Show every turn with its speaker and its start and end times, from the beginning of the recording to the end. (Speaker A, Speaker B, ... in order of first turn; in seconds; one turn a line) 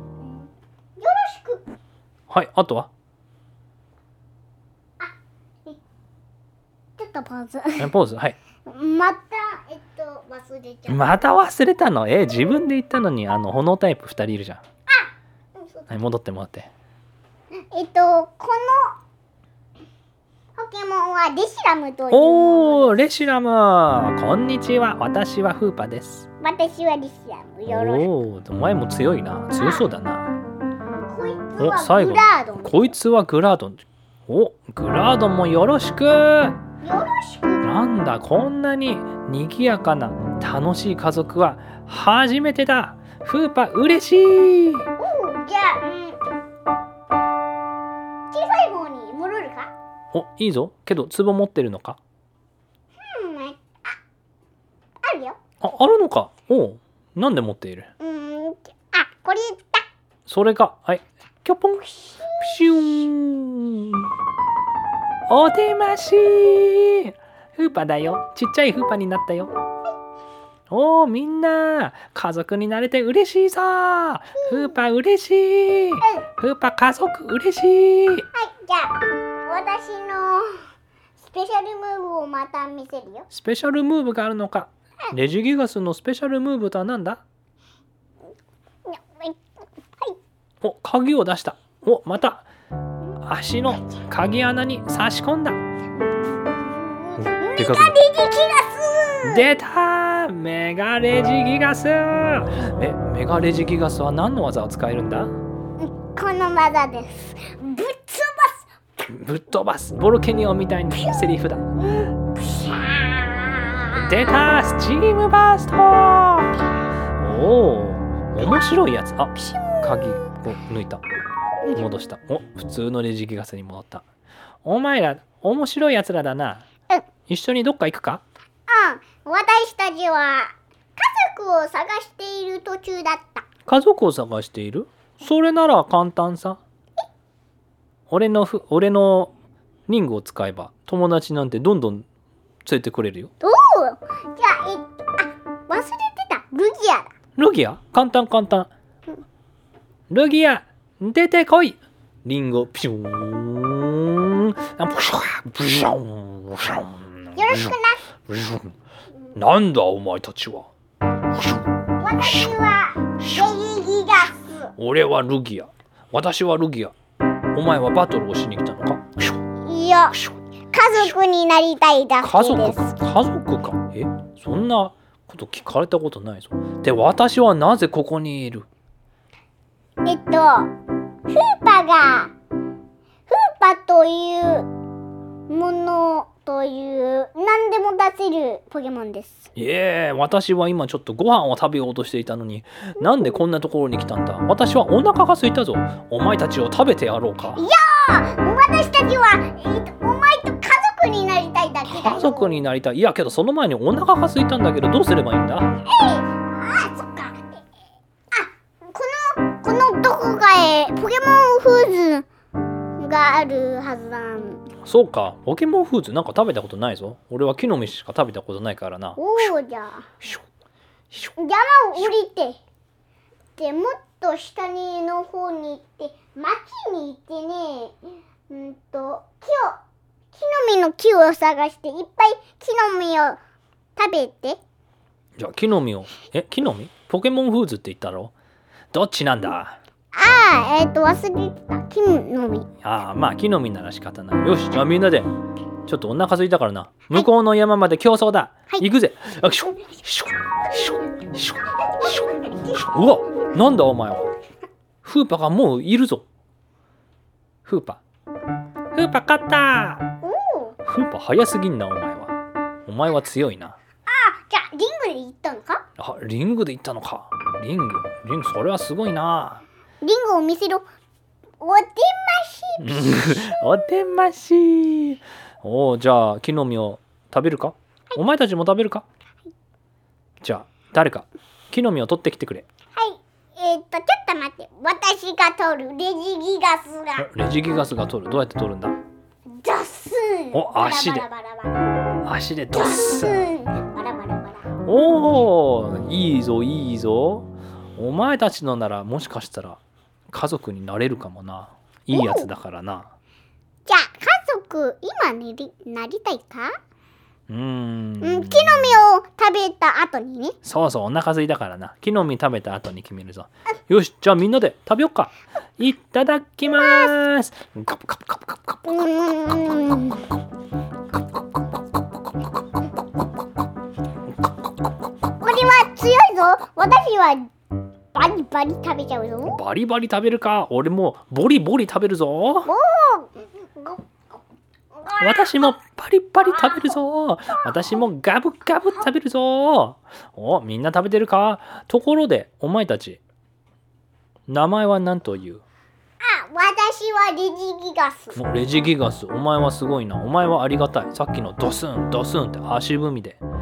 Speaker A: 0.2-1.6
Speaker B: 2.3-2.9
Speaker A: 7.0-7.9
Speaker B: 7.8-8.4
Speaker A: 8.6-11.2
Speaker B: 10.9-14.6
Speaker A: 14.9-15.9
Speaker B: 15.9-16.7
Speaker A: 17.7-19.0
Speaker A: 20.6-23.1
Speaker B: 22.1-26.2
Speaker A: 26.4-28.1
Speaker B: 27.7-30.4
Speaker A: 29.6-29.9
Speaker A: 31.0-32.9
Speaker B: 31.6-36.6
Speaker A: 36.8-37.7
Speaker B: 37.6-44.9
Speaker A: 45.0-46.2
Speaker A: 48.3-49.7
Speaker B: 50.1-52.0
Speaker A: 53.0-54.0
Speaker A: 55.0-55.4
Speaker B: 55.6-57.9
Speaker A: 58.0-59.8
Speaker B: 60.3-64.1
Speaker A: 62.1-62.5
Speaker B: 65.3-69.5
Speaker B: 70.7-78.3
Speaker A: 74.3-74.7
Speaker A: 76.0-76.2
Speaker A: 78.3-80.5
Speaker A: 81.2-83.3
Speaker B: 83.3-87.2
Speaker A: 88.8-89.4
Speaker B: 90.6-92.5
Speaker B: 93.2-95.6
Speaker A: 96.4-99.5
Speaker B: 97.2-98.0
Speaker B: 99.2-105.3
Speaker A: 105.8-108.7
Speaker B: 109.0-111.8
Speaker A: 111.8-114.3
Speaker B: 113.9-116.6
Speaker B: 117.2-121.0
Speaker A: 119.3-120.3
Speaker B: 121.7-124.0
Speaker B: 124.6-126.6
Speaker B: 127.3-128.2
Speaker A: 128.7-133.4
Speaker B: 133.7-136.6
Speaker B: 138.1-139.3
Speaker B: 139.9-142.1
Speaker B: 142.6-143.3
Speaker A: 143.4-147.1
Speaker B: 147.3-148.7
Speaker B: 150.1-157.8
Speaker A: 157.3-158.0
Speaker B: 158.3-158.8
Speaker B: 159.3-160.7
Speaker B: 161.3-161.6
Speaker A: 162.0-164.7
Speaker B: 162.2-162.5
Speaker B: 163.2-163.5
Speaker B: 164.8-166.9
Speaker B: 167.5-169.3
Speaker A: 169.6-172.9
Speaker B: 172.2-178.7
Speaker A: 180.0-180.7
Speaker A: 181.3-182.3
Speaker A: 183.3-184.7
Speaker A: 185.5-189.5
Speaker B: 189.6-197.6
Speaker A: 197.5-202.6
Speaker B: 201.9-205.7
Speaker A: 205.8-207.5
Speaker A: 208.3-212.3
Speaker A: 213.0-214.7
Speaker B: 214.8-219.5
Speaker A: 219.2-220.1
Speaker A: 221.4-222.6
Speaker A: 223.6-229.8
Speaker A: 230.3-233.4
Speaker A: 234.0-234.6
Speaker B: 235.4-238.3
Speaker B: 238.9-239.8
Speaker A: 240.1-242.7
Speaker B: 242.8-245.3
Speaker B: 245.8-254.3
Speaker A: 252.0-252.8
Speaker B: 255.0-256.2
Speaker B: 257.6-258.0
Speaker B: 258.9-260.1
Speaker A: 260.2-260.8
Speaker B: 260.9-262.3
Speaker B: 262.9-263.8
Speaker A: 264.1-265.8
Speaker B: 266.0-269.6
Speaker A: 270.0-270.9
Speaker A: 271.6-273.6
Speaker B: 272.8-279.0
Speaker B: 280.4-282.6
Speaker A: 282.9-287.3
Speaker B: 287.2-289.0
Speaker A: 289.5-292.1
Speaker B: 290.5-291.2
Speaker B: 292.2-293.5
Speaker A: 292.7-294.7
Speaker B: 294.8-299.8
Speaker B: 300.3-303.1
Speaker A: 302.1-302.5
Speaker A: 303.9-306.8
Speaker B: 307.5-309.0
Speaker A: 308.2-310.6
Speaker B: 310.6-318.9
Speaker A: 316.7-317.1
Speaker A: 318.9-320.3
Speaker A: 325.4-327.5
Speaker A: 328.1-329.6
Speaker B: 329.4-332.7
Speaker A: 332.6-334.0
Speaker A: 334.9-335.7
Speaker B: 335.2-343.2
Speaker A: 336.6-336.9
Speaker B: 344.5-345.6
Speaker A: 346.2-348.4
Speaker B: 348.3-353.4